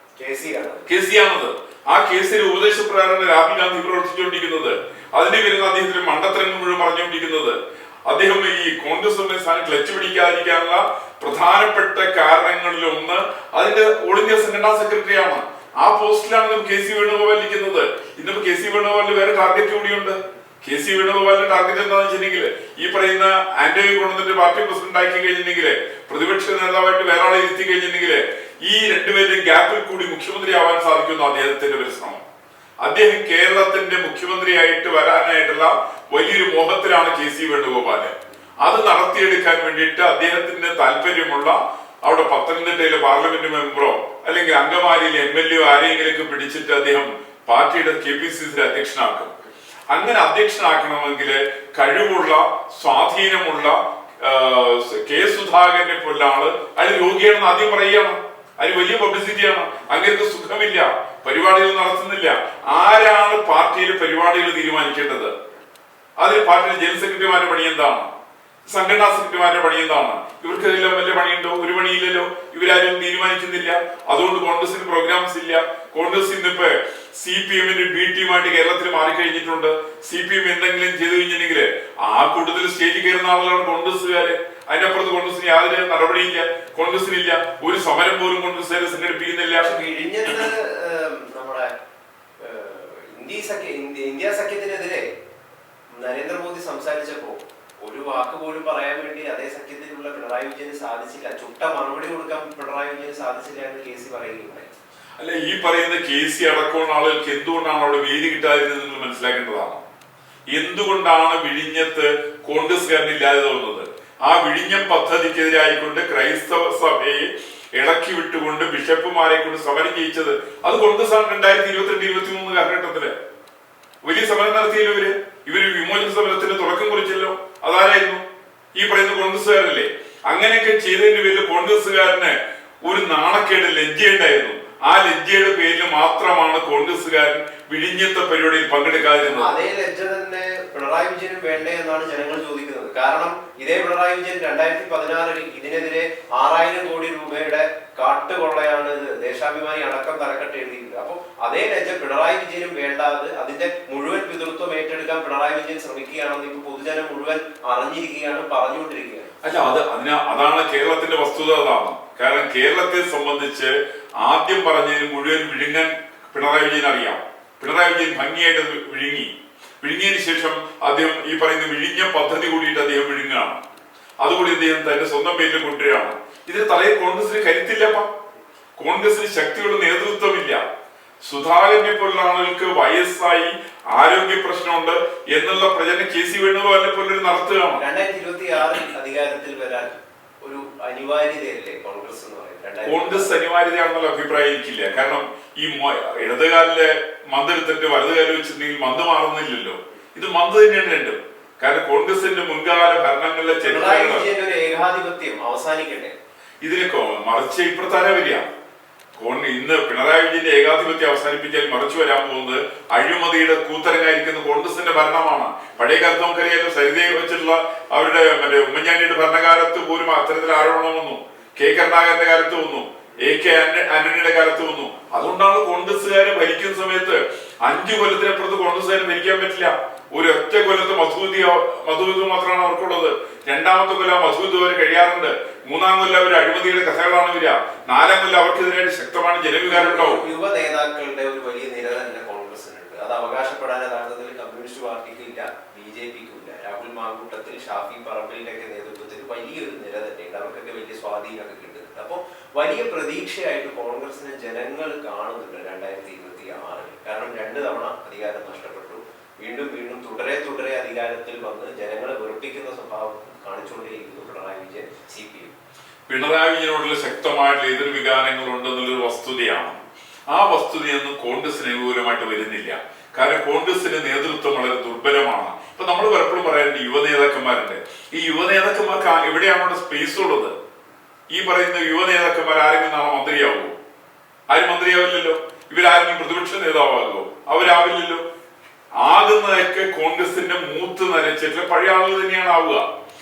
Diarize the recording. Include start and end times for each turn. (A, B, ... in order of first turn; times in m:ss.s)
0:00.2-0:00.9 A
0:00.9-0:32.2 B
0:32.8-0:38.1 B
0:38.6-0:49.3 B
0:49.9-1:05.3 B
1:06.2-1:08.1 B
1:08.7-1:29.8 B
1:29.6-1:31.7 A
1:32.4-1:35.0 A
1:36.0-1:44.7 A
1:45.2-1:49.8 B
1:50.5-2:03.1 B
2:04.0-2:08.2 B
2:08.8-2:19.6 B
2:19.3-2:39.4 A
2:39.4-2:49.3 B
2:49.8-2:53.6 B
2:54.2-2:58.1 B
2:58.8-3:00.6 B
3:01.2-3:07.8 B
3:07.8-3:13.3 A
3:12.9-3:24.3 B
3:23.6-3:26.1 A
3:26.6-3:28.4 B
3:29.2-4:00.2 B
3:59.7-4:25.5 A
4:26.1-4:29.8 B
4:30.3-4:40.5 B
4:41.3-4:43.7 B
4:44.5-4:48.2 B
4:49.0-4:52.8 B